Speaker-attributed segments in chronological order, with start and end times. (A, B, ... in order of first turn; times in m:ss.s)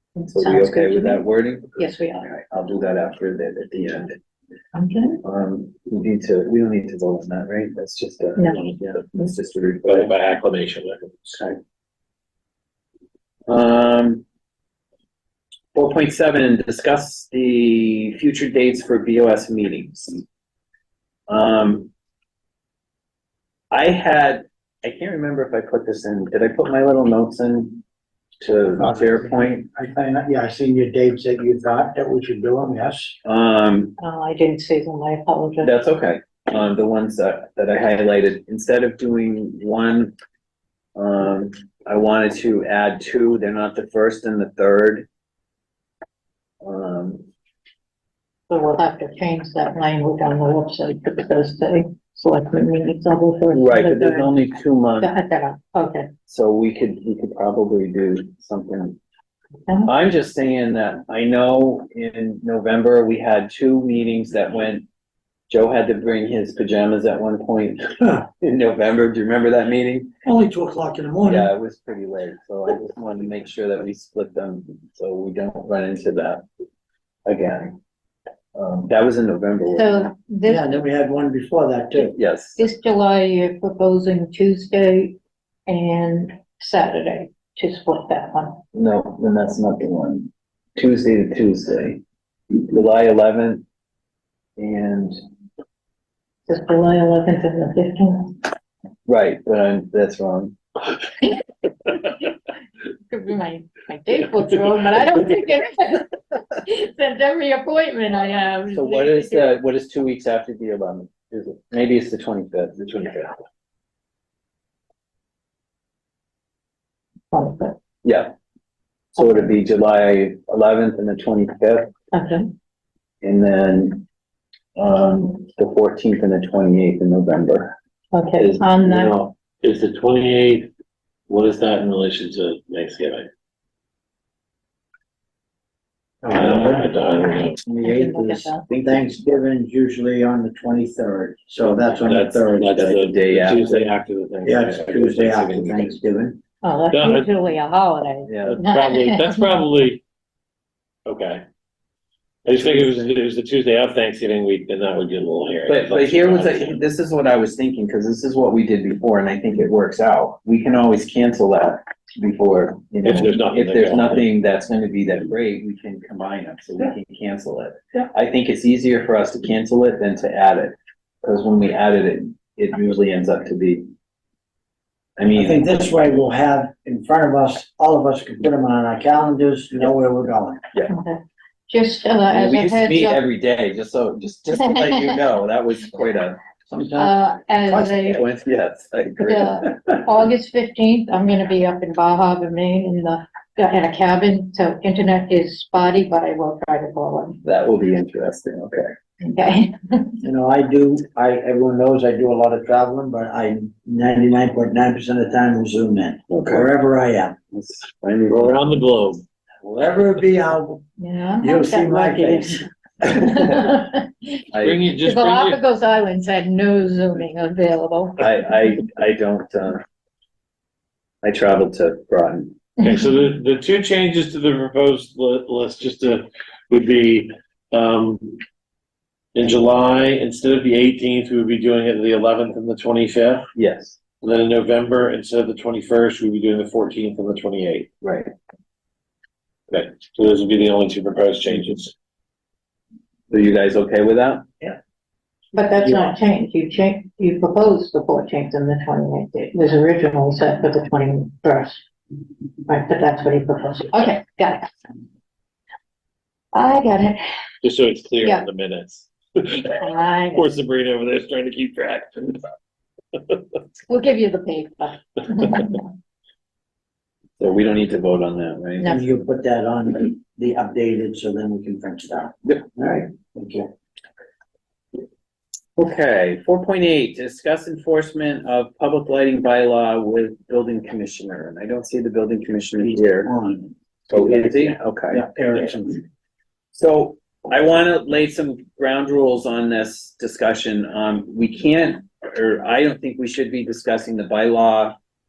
0:00.2-0:01.2 A
0:00.3-0:01.8 B
0:01.8-0:02.3 A
0:02.3-0:04.2 B
0:04.8-0:05.2 A
0:05.2-0:10.1 B
0:08.4-0:08.6 A
0:08.5-0:08.8 C
0:09.8-0:11.4 C
0:13.5-0:14.2 B
0:15.7-0:20.2 B
0:21.3-0:21.9 B
0:23.7-0:27.8 B
0:28.4-0:29.7 B
0:28.8-0:33.2 D
0:33.2-0:34.0 B
0:34.0-0:35.7 A
0:35.6-0:40.1 B
0:41.0-0:45.1 B
0:46.6-0:47.2 B
0:48.5-0:54.3 A
0:53.5-0:55.1 B
0:55.0-0:56.1 A
0:56.3-0:59.0 B
0:59.7-0:59.9 A
0:59.8-1:04.8 B
1:05.5-1:10.1 B
1:10.2-1:11.5 D
1:11.2-1:16.4 B
1:17.3-1:17.7 B
1:18.6-1:20.1 B
1:19.7-1:20.8 A
1:20.4-1:22.2 D
1:22.1-1:22.6 B
1:22.6-1:25.2 A
1:25.7-1:28.6 A
1:28.7-1:32.0 B
1:32.7-1:33.6 B
1:34.6-1:35.2 B
1:36.5-1:38.4 A
1:39.1-1:40.6 B
1:42.9-1:49.6 A
1:48.7-1:53.3 B
1:57.3-1:57.8 A
1:58.0-1:58.3 B
1:59.2-2:01.9 B
2:02.1-2:02.5 A
2:03.2-2:04.0 B
2:04.8-2:07.8 B
2:08.1-2:09.2 A
2:08.4-2:08.9 B
2:09.0-2:10.7 C
2:11.3-2:13.3 C
2:16.2-2:16.9 D
2:16.3-2:17.6 C
2:17.3-2:18.6 A
2:17.6-2:22.8 D
2:21.7-2:26.0 C
2:22.0-2:23.8 B
2:24.4-2:26.4 D
2:26.6-2:29.6 A
2:26.9-2:27.3 C
2:28.3-2:28.6 B
2:28.5-2:30.0 C
2:31.1-2:31.4 C
2:32.4-2:36.8 C
2:32.6-2:33.1 D
2:35.7-2:53.9 B
2:43.0-2:44.2 C
2:55.2-2:55.9 B
2:55.4-3:00.6 D
3:00.9-3:03.2 A
3:02.3-3:06.4 B
3:06.7-3:07.1 D
3:07.0-3:08.3 A
3:07.7-3:10.0 B
3:09.2-3:17.4 A
3:17.4-3:18.9 B
3:19.2-3:20.2 A
3:20.2-3:27.4 D
3:26.3-3:26.7 B
3:27.5-3:28.5 B
3:28.3-3:29.2 C
3:29.6-3:30.8 D
3:31.0-3:34.4 A
3:31.4-3:32.6 D
3:34.5-3:34.8 B
3:34.6-3:35.6 C
3:35.0-3:38.2 A
3:38.2-3:39.8 B
3:41.2-3:42.6 B
3:42.8-3:48.4 C
3:49.4-3:53.5 C
3:53.6-3:54.0 B
3:54.2-3:57.9 C
3:58.0-3:58.3 B
3:59.7-4:01.9 C
4:03.3-4:04.5 B
4:05.5-4:11.8 A
4:12.7-4:14.7 A
4:16.5-4:17.2 A
4:17.6-4:22.4 C
4:19.8-4:20.5 A
4:23.1-4:23.6 C
4:23.9-4:25.9 A
4:27.4-4:28.9 B
4:28.8-4:29.0 A
4:28.9-4:33.7 D
4:35.8-4:43.3 B
4:42.8-4:46.0 D
4:44.1-4:45.2 B
4:46.7-4:55.0 B